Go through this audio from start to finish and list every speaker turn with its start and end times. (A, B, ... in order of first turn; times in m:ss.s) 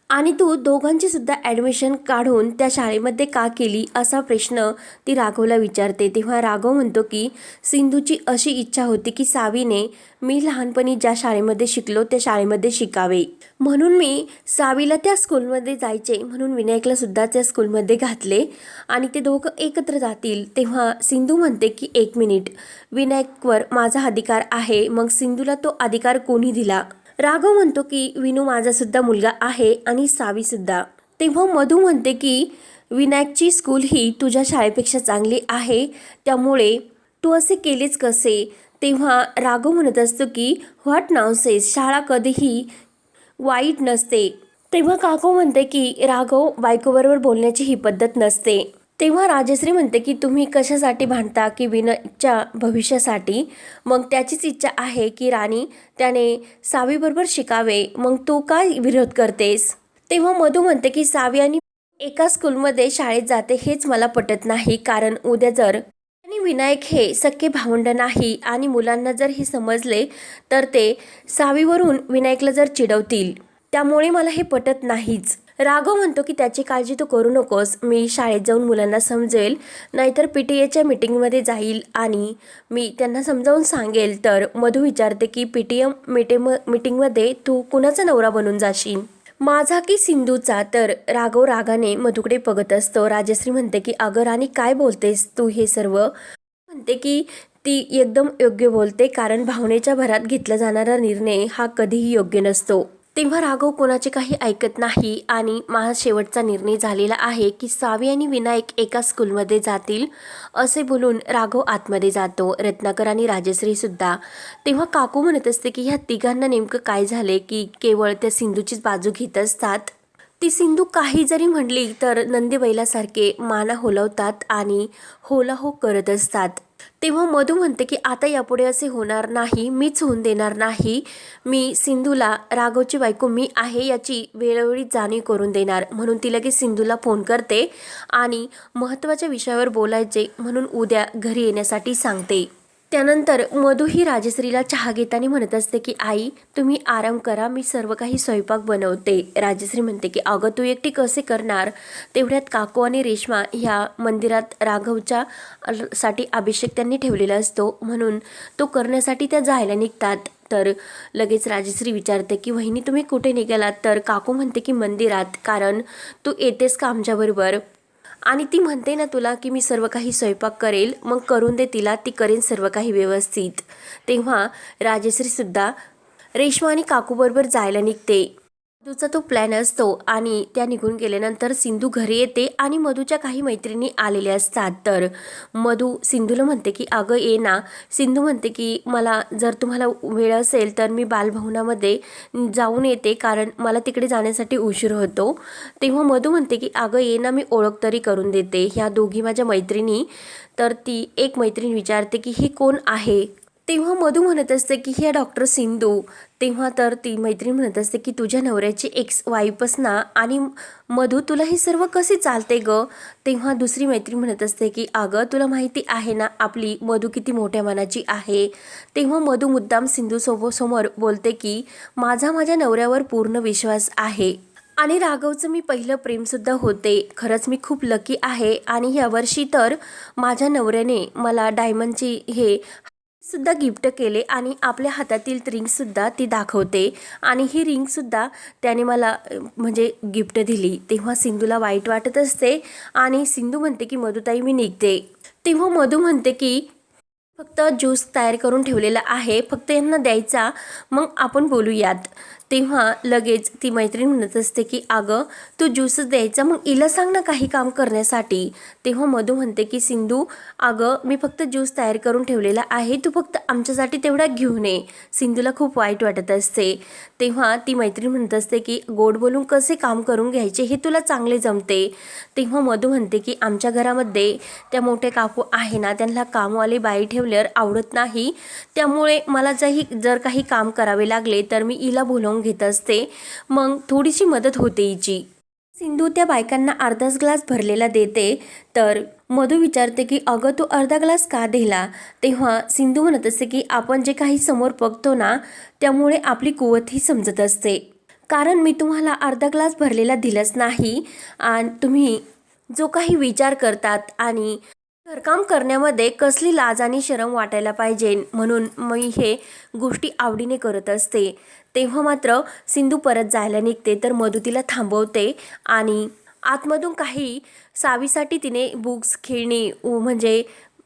0:00.1-0:42.7 A
0:43.4-1:36.1 A
1:36.7-2:47.6 A
2:48.3-2:55.7 A
2:56.4-2:58.3 A
2:58.8-3:52.7 A
3:53.2-4:06.7 A
4:07.4-4:45.2 A
4:45.8-5:02.2 A
5:02.7-5:20.5 A